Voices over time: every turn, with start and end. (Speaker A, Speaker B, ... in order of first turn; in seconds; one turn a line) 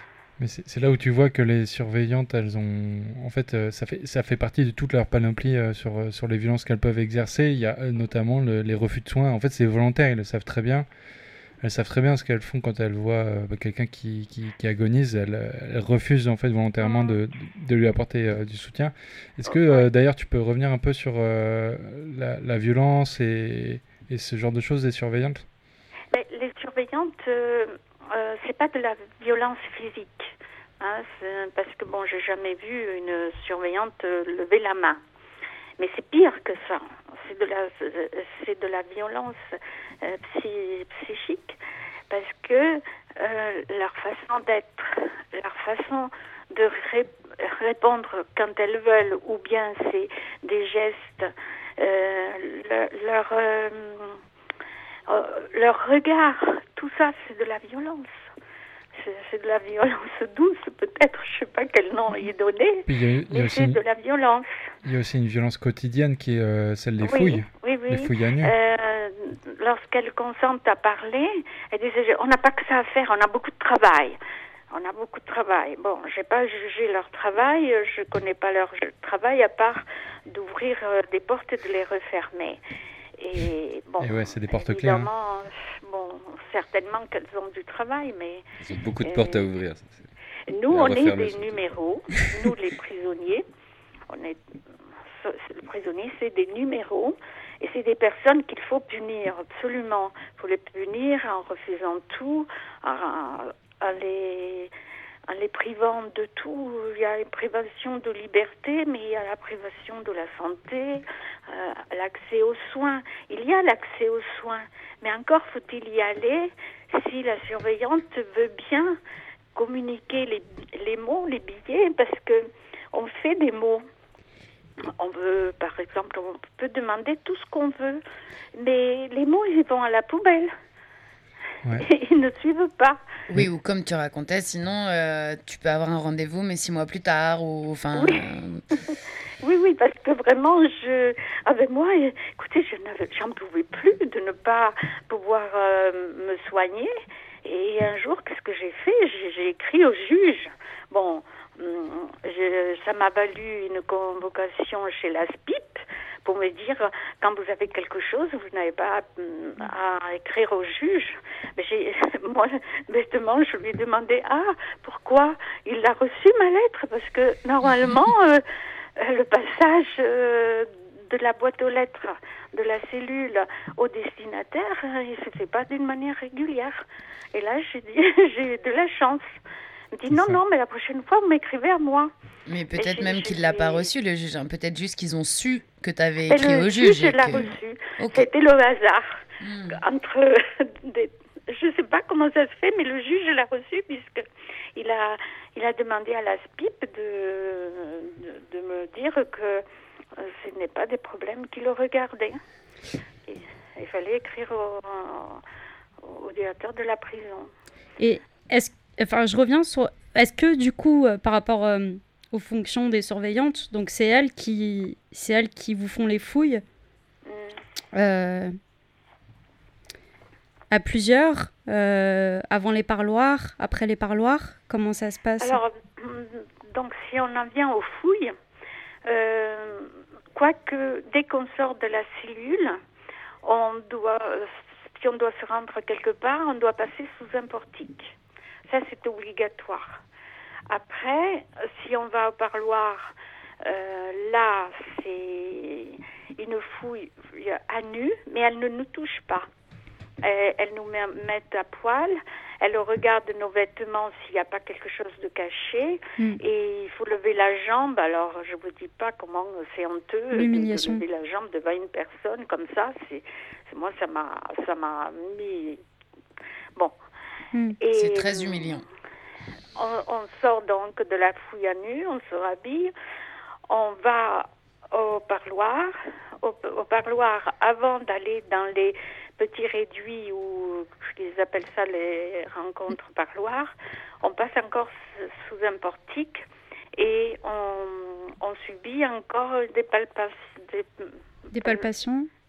Speaker A: 0.4-10.9
Speaker A: 11.6-25.5
Speaker B: 16.8-17.2
Speaker B: 19.5-19.9
Speaker B: 26.1-35.0
Speaker B: 35.8-39.4
Speaker B: 40.0-41.6
Speaker B: 42.1-54.2
Speaker B: 55.1-58.1
Speaker B: 58.9-64.5
Speaker A: 62.9-63.8
Speaker A: 64.8-68.5
Speaker B: 67.0-74.2
Speaker B: 74.7-82.6
Speaker B: 83.2-88.5
Speaker A: 84.0-85.1
Speaker C: 88.6-90.0
Speaker B: 89.0-89.5
Speaker B: 90.5-93.5
Speaker C: 90.7-91.7
Speaker B: 94.1-94.4
Speaker B: 95.2-104.7
Speaker B: 105.3-119.0
Speaker B: 119.5-123.8
Speaker B: 125.0-128.0
Speaker B: 128.6-130.5
Speaker B: 131.8-133.0
Speaker D: 133.3-138.6
Speaker B: 137.9-138.3
Speaker B: 139.4-146.9
Speaker B: 147.4-168.4
Speaker B: 169.0-176.8
Speaker B: 177.3-179.3
Speaker B: 179.9-182.1
Speaker A: 180.1-180.4
Speaker D: 182.5-188.3
Speaker B: 182.8-183.9
Speaker B: 186.3-189.2
Speaker D: 189.4-189.8
Speaker B: 189.7-199.6
Speaker B: 200.2-202.4
Speaker B: 203.3-205.4
Speaker B: 206.0-207.5
Speaker E: 208.0-216.6
Speaker B: 217.3-217.6
Speaker E: 217.9-218.6
Speaker E: 220.7-225.6
Speaker B: 225.4-228.3
Speaker B: 229.1-232.8
Speaker B: 233.4-238.1
Speaker B: 238.7-240.0
Speaker B: 240.7-243.1
Speaker B: 243.6-249.5
Speaker B: 250.2-265.8
Speaker E: 260.3-261.0
Speaker B: 267.8-268.8
Speaker D: 267.9-268.8
Speaker B: 269.8-272.9
Speaker B: 273.7-286.4
Speaker B: 287.0-291.9
Speaker E: 291.5-292.3